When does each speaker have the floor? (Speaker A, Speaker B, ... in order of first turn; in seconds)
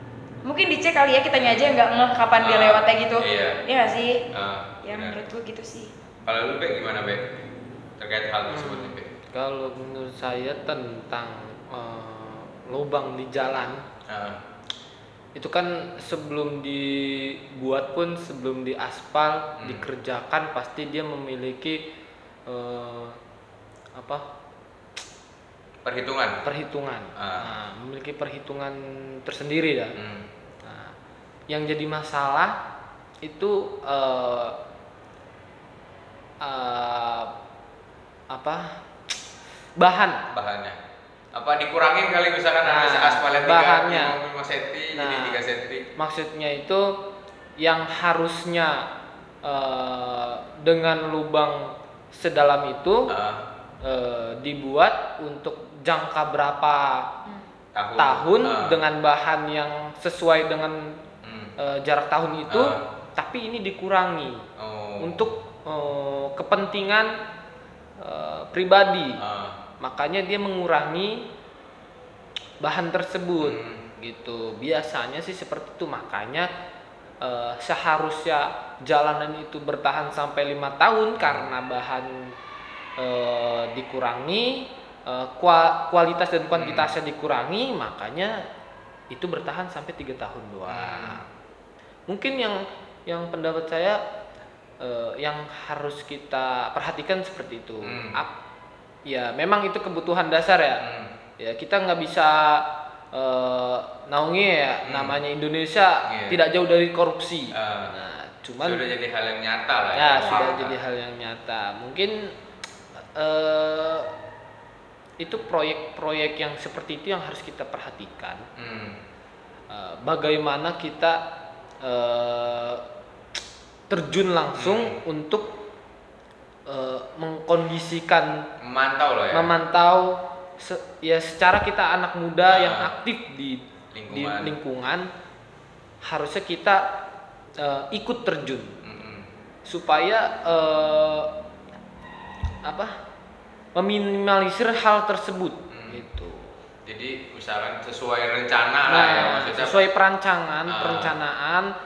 Speaker A: 0.4-4.2, 4.8-5.9, 110.2-110.5
Speaker B: 1.4-1.7, 2.4-3.6, 4.3-5.2, 6.2-7.3, 8.0-9.1, 14.1-14.4, 19.6-19.9, 25.8-26.4, 27.1-27.5, 29.9-30.3, 40.3-40.8, 41.3-45.8, 53.1-53.4, 57.7-58.8, 61.2-61.5, 62.5-62.8, 64.6-65.2, 69.2-69.6, 73.4-73.8, 81.2-81.5, 86.5-86.9, 90.7-91.2, 97.8-98.2, 100.8-101.1, 104.8-105.2, 106.1-106.4, 107.5-107.9, 108.6-110.7, 118.5-119.0, 124.6-125.0, 128.6-129.5, 132.5-132.9, 133.9-134.5, 138.8-139.3, 145.7-146.0, 146.8-149.8, 150.7-151.2
Speaker C: 8.5-13.8, 15.3-21.8, 22.5-23.2, 23.9-24.2, 26.4-30.0, 30.6-30.9, 31.5-32.5, 33.2-34.6, 36.4-37.3, 38.3-38.9, 39.8-40.2, 42.6-44.2, 44.9-45.4, 46.0-47.0, 47.6-48.9, 49.4-53.1, 53.8-57.1, 58.0-61.0, 61.6-64.4, 65.0-67.1, 68.0-69.2, 69.8-71.3, 72.6-76.5, 77.2-82.3, 83.0-88.4, 89.1-91.3, 92.1-94.0, 94.8-98.3, 99.1-100.8, 101.4-108.8, 109.9-112.3, 113.0-114.1, 115.2-118.4, 119.7-121.2, 121.8-122.8, 123.9-125.6, 126.7-128.4, 129.3-135.1, 136.0-136.8, 137.6-138.8, 139.7-141.3, 142.6-143.0, 143.8-146.6, 148.9-151.7